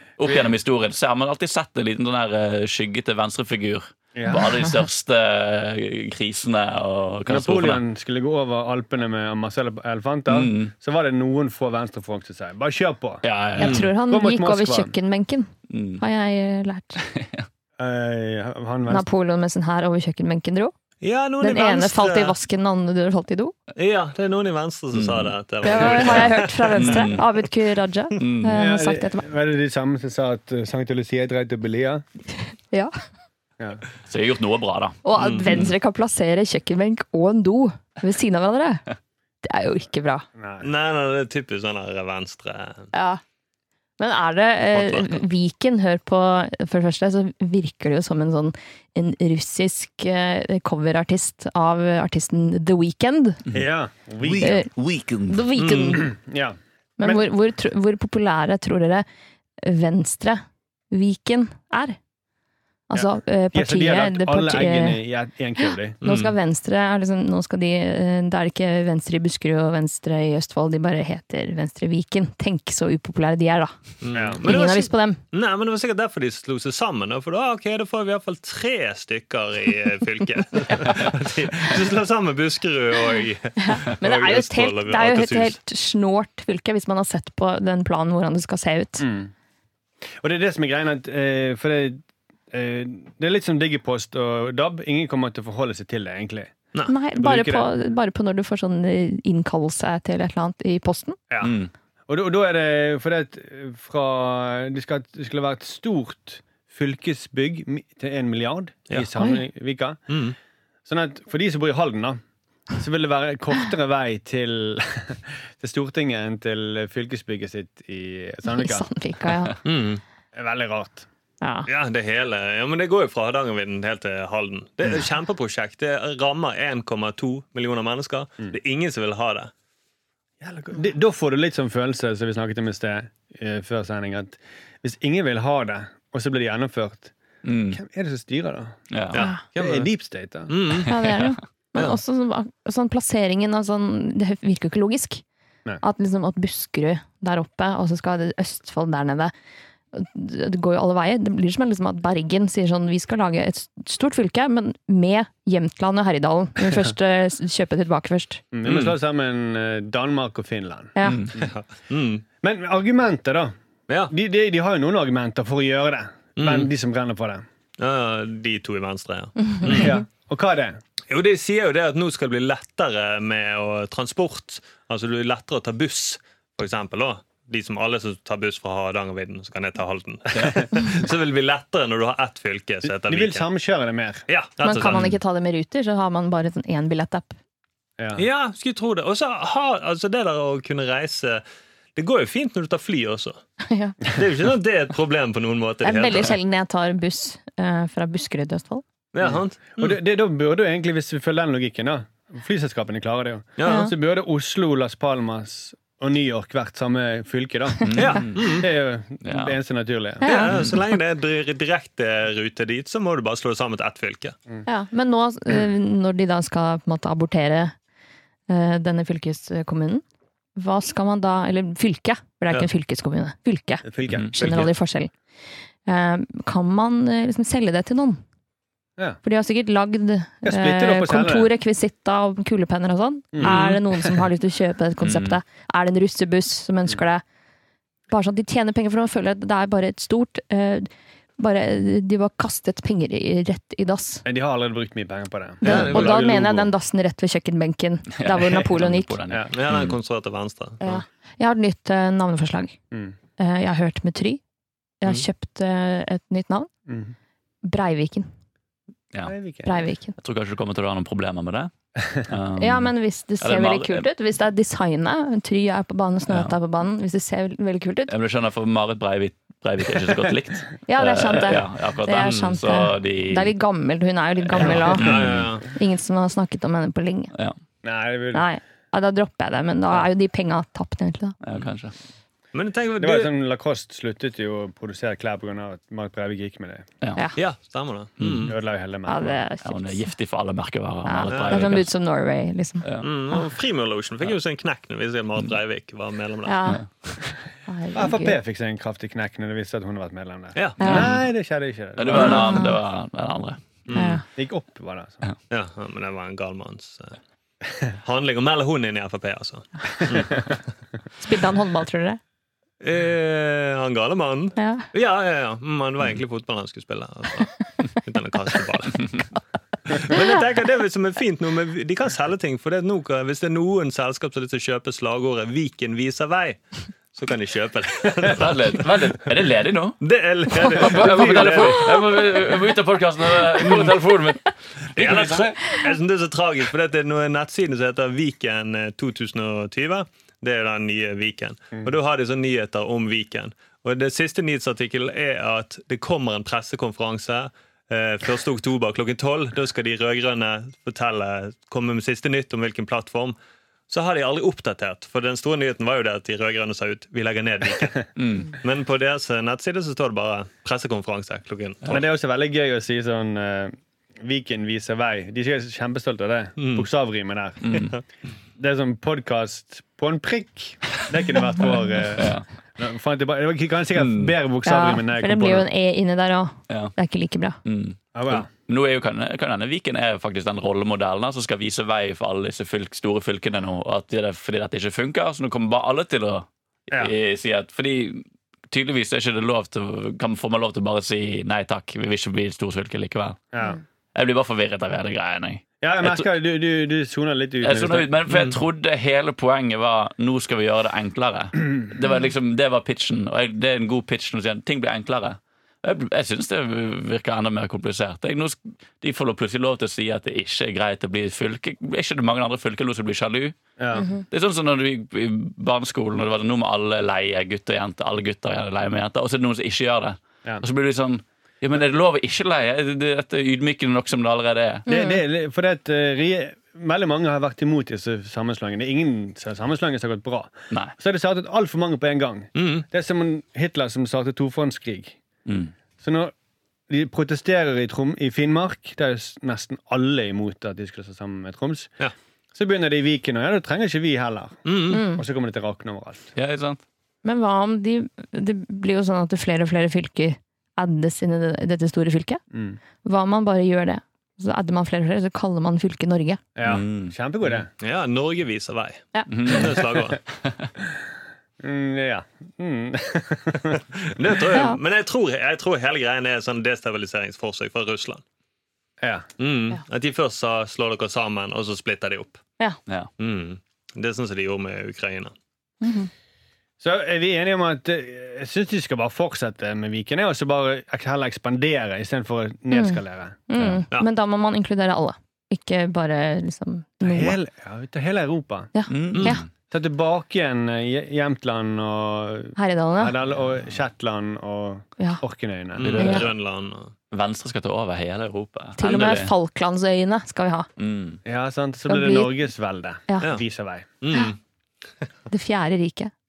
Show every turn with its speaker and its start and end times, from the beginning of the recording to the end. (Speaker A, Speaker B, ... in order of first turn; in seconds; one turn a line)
Speaker A: 0.2-7.8
Speaker B: 4.2-4.6
Speaker B: 7.3-13.2
Speaker A: 10.3-10.7
Speaker A: 13.2-13.9
Speaker C: 13.6-17.0
Speaker D: 13.6-13.9
Speaker B: 14.0-14.9
Speaker A: 15.7-16.0
Speaker A: 17.1-17.5
Speaker B: 17.8-19.1
Speaker C: 18.9-20.7
Speaker D: 21.0-22.4
Speaker C: 21.4-23.5
Speaker D: 23.8-27.2
Speaker A: 24.9-27.2
Speaker C: 25.6-29.2
Speaker A: 28.2-28.6
Speaker B: 28.5-32.0
Speaker A: 34.1-35.7
Speaker C: 35.0-38.8
Speaker D: 35.2-35.5
Speaker C: 39.4-40.3
Speaker B: 40.4-40.7
Speaker D: 40.6-42.9
Speaker C: 42.9-43.2
Speaker C: 44.0-53.4
Speaker D: 44.7-45.2
Speaker B: 53.5-54.6
Speaker A: 54.2-55.4
Speaker C: 54.4-54.7
Speaker C: 55.2-56.1
Speaker D: 55.6-56.0
Speaker B: 56.0-57.2
Speaker C: 57.0-59.1
Speaker C: 59.6-62.0
Speaker C: 62.9-65.0
Speaker B: 62.9-66.0
Speaker C: 65.6-73.7
Speaker D: 66.0-66.3
Speaker D: 74.0-85.6
Speaker B: 74.1-74.4
Speaker C: 74.4-75.2
Speaker C: 83.6-89.1
Speaker B: 89.0-89.3
Speaker B: 90.2-96.5
Speaker C: 96.9-101.2
Speaker B: 97.2-97.7
Speaker A: 101.4-101.7
Speaker B: 102.1-110.0
Speaker C: 109.2-109.4
Speaker D: 110.1-110.3
Speaker B: 110.9-112.2
Speaker B: 112.8-118.9
Speaker C: 118.5-119.6
Speaker D: 119.7-120.0
Speaker B: 120.3-121.1
Speaker C: 121.4-121.7
Speaker D: 121.7-129.5
Speaker B: 130.4-137.1
Speaker A: 137.4-137.8
Speaker B: 137.7-138.8
Speaker A: 138.9-139.2
Speaker D: 139.1-139.9
Speaker B: 139.6-140.6
Speaker D: 140.5-141.0
Speaker C: 140.9-145.2
Speaker C: 145.8-149.3
Speaker C: 149.9-158.4
Speaker B: 158.5-161.5
Speaker D: 158.7-159.0
Speaker C: 161.0-161.3
Speaker A: 161.1-161.4
Speaker D: 161.4-162.2
Speaker B: 162.4-163.5
Speaker B: 164.1-167.4
Speaker D: 166.4-166.7
Speaker D: 167.8-170.0
Speaker B: 169.7-170.8
Speaker D: 171.1-183.5
Speaker A: 180.3-180.6
Speaker B: 182.8-184.3
Speaker D: 184.3-185.1
Speaker C: 184.6-187.4
Speaker A: 184.9-185.2
Speaker B: 188.0-188.2
Speaker D: 188.2-191.4
Speaker D: 192.0-193.4
Speaker C: 193.6-194.0
Speaker D: 194.1-196.4
Speaker C: 195.8-198.8
Speaker D: 199.1-200.0
Speaker B: 199.2-210.3
Speaker D: 203.6-203.9
Speaker C: 203.6-203.9
Speaker A: 207.8-208.6
Speaker D: 208.0-208.7
Speaker A: 209.2-209.6
Speaker C: 210.2-210.8
Speaker D: 210.2-214.4
Speaker C: 214.7-217.8
Speaker C: 218.5-220.0
Speaker C: 220.6-225.1
Speaker B: 223.8-224.7
Speaker D: 224.4-224.7
Speaker C: 225.9-228.2
Speaker C: 229.2-237.2
Speaker B: 230.4-231.5
Speaker B: 233.3-233.6
Speaker D: 233.4-233.8
Speaker A: 235.0-235.4
Speaker C: 238.1-244.2
Speaker B: 244.2-246.7
Speaker D: 245.6-246.2
Speaker C: 245.6-249.2
Speaker A: 248.2-250.0
Speaker B: 249.3-249.5
Speaker D: 249.5-251.0
Speaker C: 250.8-252.8
Speaker C: 253.4-254.4
Speaker C: 255.0-256.7
Speaker B: 256.9-257.1
Speaker C: 257.6-258.3
Speaker B: 259.2-259.8
Speaker C: 259.6-260.2
Speaker A: 260.2-264.1
Speaker C: 262.6-268.1
Speaker A: 266.3-266.6
Speaker A: 268.1-273.5
Speaker C: 270.9-277.3
Speaker D: 272.2-272.5
Speaker A: 274.6-275.5
Speaker D: 274.9-275.7
Speaker B: 277.8-278.5
Speaker C: 278.3-281.4
Speaker A: 281.4-281.9
Speaker D: 282.5-283.3
Speaker B: 283.0-286.9
Speaker D: 287.4-288.6
Speaker A: 288.2-288.6
Speaker B: 288.5-289.4
Speaker C: 289.1-290.1
Speaker A: 289.6-291.9
Speaker C: 291.1-292.9
Speaker D: 291.3-291.7
Speaker A: 292.8-293.1
Speaker D: 293.0-296.6
Speaker C: 296.5-296.9
Speaker C: 297.7-298.4
Speaker B: 297.9-302.6
Speaker D: 300.6-301.2
Speaker C: 300.8-301.1
Speaker A: 302.0-303.8
Speaker C: 302.1-302.8
Speaker D: 303.9-304.2
Speaker C: 303.9-304.2
Speaker B: 304.4-305.2
Speaker D: 305.5-307.2
Speaker D: 307.9-310.6
Speaker C: 311.2-312.2
Speaker D: 312.8-319.2
Speaker C: 314.6-314.9
Speaker D: 319.9-326.6
Speaker D: 327.1-329.1
Speaker A: 328.3-330.0
Speaker D: 330.0-332.1
Speaker A: 330.7-335.6
Speaker D: 333.6-333.9
Speaker D: 335.0-353.4
Speaker D: 353.9-362.0
Speaker A: 358.2-358.6
Speaker B: 361.9-367.9
Speaker D: 366.6-366.9
Speaker A: 367.6-367.9
Speaker B: 368.6-375.7
Speaker A: 372.1-372.4
Speaker A: 374.0-374.3
Speaker C: 374.6-377.6
Speaker A: 376.7-376.9
Speaker A: 377.6-393.4
Speaker B: 378.1-378.5
Speaker A: 394.1-396.3
Speaker B: 395.8-398.1
Speaker A: 397.6-413.6
Speaker D: 398.3-398.6
Speaker B: 413.8-414.1
Speaker C: 413.9-414.2
Speaker A: 414.3-424.9
Speaker C: 424.9-425.2
Speaker B: 424.9-435.2
Speaker D: 432.6-432.9
Speaker A: 435.5-435.7
Speaker B: 436.0-436.3
Speaker B: 436.9-441.9
Speaker B: 442.5-446.3
Speaker D: 444.7-445.1
Speaker C: 444.9-445.2
Speaker A: 446.4-446.8
Speaker C: 447.2-452.4
Speaker B: 452.5-452.8
Speaker C: 453.0-456.4
Speaker B: 456.6-457.7
Speaker A: 456.6-457.1
Speaker D: 457.8-460.2
Speaker A: 459.3-459.8
Speaker A: 460.4-460.7
Speaker B: 461.6-463.8
Speaker D: 463.7-468.2
Speaker C: 464.5-464.8
Speaker B: 469.0-469.3
Speaker D: 469.4-472.4
Speaker D: 473.2-475.3
Speaker C: 475.8-476.1
Speaker B: 476.8-483.4
Speaker C: 482.7-487.4
Speaker B: 487.0-488.7
Speaker C: 488.7-489.4
Speaker A: 488.9-489.5
Speaker B: 489.7-496.1
Speaker C: 492.6-493.1
Speaker D: 495.8-496.9
Speaker A: 495.8-496.3
Speaker C: 496.0-496.3
Speaker A: 497.1-499.3
Speaker C: 498.8-500.7
Speaker A: 500.8-501.2
Speaker B: 501.2-503.9
Speaker C: 501.9-502.3
Speaker D: 504.0-504.4
Speaker C: 505.3-506.1